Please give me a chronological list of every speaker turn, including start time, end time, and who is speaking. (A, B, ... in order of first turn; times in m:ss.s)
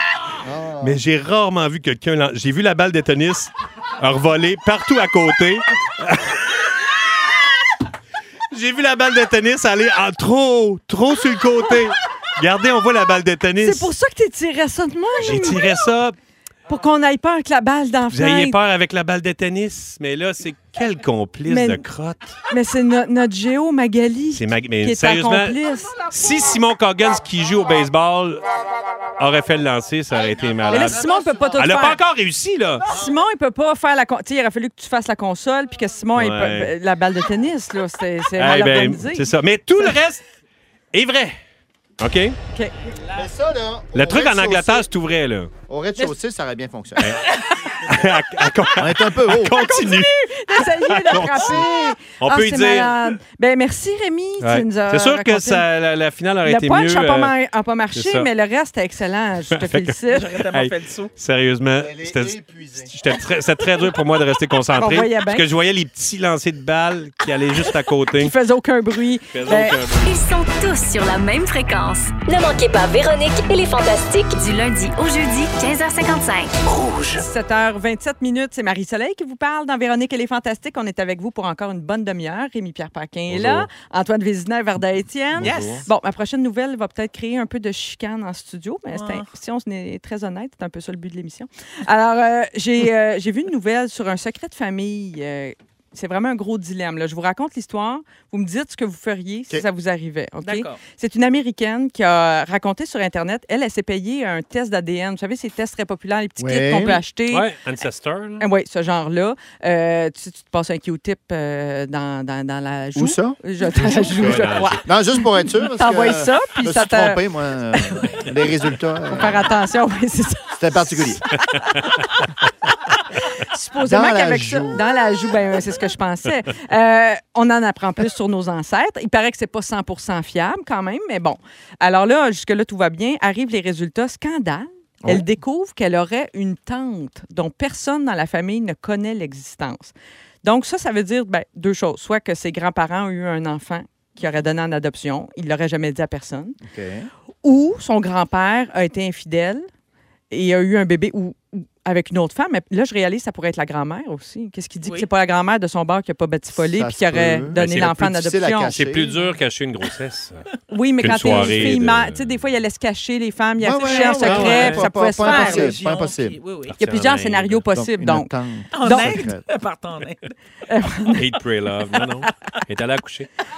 0:00.4-0:01.0 A
0:00.8-0:06.7 B
0:08.5-0:13.9 B
0:13.6-0:15.6 C
0:15.2-0:16.2 B
0:16.7-0:18.6 C
0:18.1-0:22.4 B
0:21.5-0:21.8 C
0:22.5-0:26.0 C
0:24.3-0:28.4 B
0:29.2-0:31.0 B
0:30.7-0:32.0 C
0:31.6-0:32.9 B
0:32.9-0:39.3 C
0:36.2-0:36.7 B
0:38.4-0:40.2 B
0:40.9-0:41.4 B
0:42.0-0:42.4 B
0:43.1-0:44.9 A
0:43.9-0:45.5 B
0:45.7-0:47.2 A
0:47.8-0:51.7 B
0:48.8-0:49.6 A
0:49.4-0:55.6 C
0:51.3-0:51.7 A
0:52.2-0:53.1 B
0:54.4-0:57.3 B
0:56.4-1:00.3 C
0:57.9-0:58.3 B
0:59.5-1:00.0 B
1:00.1-1:01.1 D
1:00.5-1:08.3 B
1:01.8-1:02.9 A
1:04.8-1:05.4 C
1:08.2-1:09.8 C
1:09.3-1:10.2 B
1:10.0-1:16.6 E
1:16.7-1:17.1 B
1:17.2-1:47.5 C
1:23.3-1:23.7 B
1:25.3-1:25.9 A
1:25.4-1:25.9 D
1:28.9-1:29.3 D
1:40.4-1:40.8 D
1:46.4-1:47.0 A
1:47.3-1:48.5 B
1:48.4-1:57.2 C
1:53.0-1:59.5 A
1:54.2-1:54.8 B
1:57.7-1:58.2 C
1:59.1-2:01.9 C
2:00.5-2:01.2 A
2:03.2-2:26.6 C
2:03.8-2:04.8 A
2:26.6-2:27.1 A
2:27.4-2:29.7 C
2:30.3-2:38.8 C
2:36.6-2:39.1 A
2:37.6-2:37.9 B
2:38.7-2:40.5 B
2:39.0-2:39.4 D
2:40.7-2:45.8 C
2:41.0-2:42.4 B
2:41.2-2:41.6 D
2:43.6-2:46.4 A
2:43.8-2:46.8 D
2:44.3-2:44.8 B
2:46.7-2:47.6 B
2:46.8-2:49.2 C
2:47.7-2:49.5 A
2:48.7-2:50.3 D
2:50.7-2:51.3 C
2:51.2-2:53.3 B